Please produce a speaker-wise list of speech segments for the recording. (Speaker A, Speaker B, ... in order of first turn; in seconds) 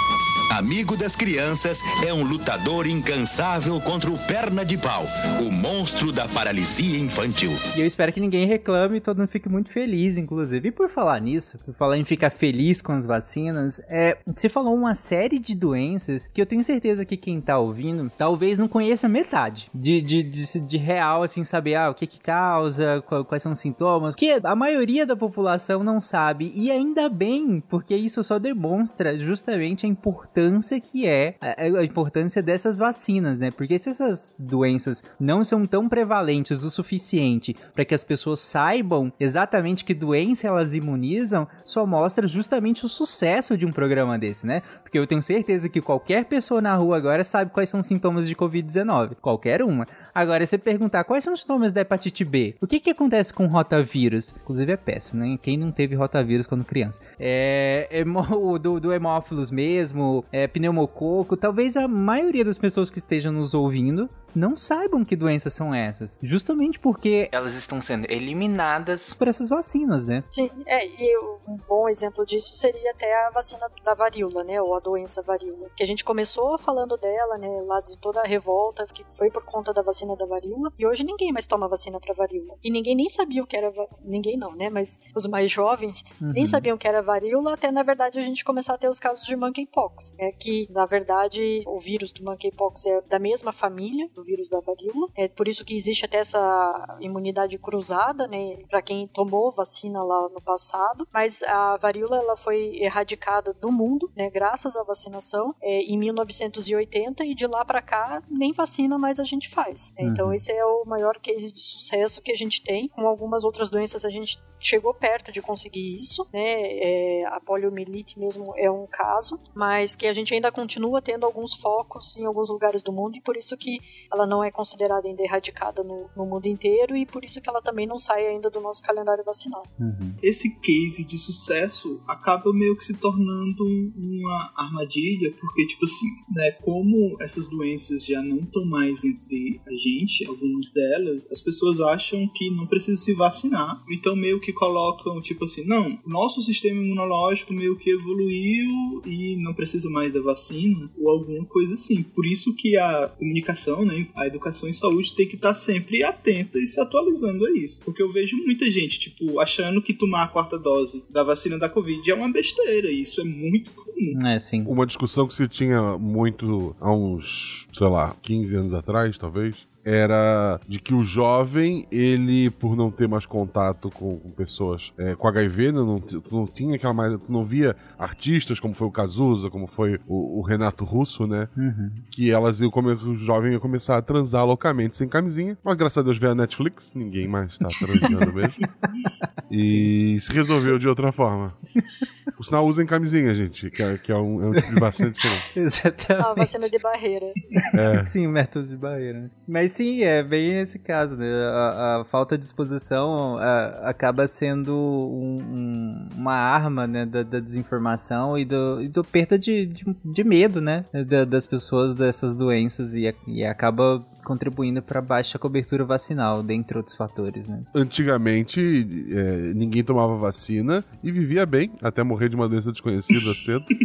Speaker A: 0.5-7.6
Speaker B: 7.7-70.2, 86.2-86.7, 110.0-110.4, 129.8-130.2, 164.1-164.7, 181.6-182.1, 187.8-188.1, 194.6-195.0, 195.5-196.7, 197.6-217.7
Speaker C: 70.3-129.7, 196.2-197.4
Speaker D: 130.2-164.2
Speaker E: 164.7-181.5, 182.1-188.6, 189.5-191.6, 192.4-195.5, 197.7-198.1, 217.7-223.7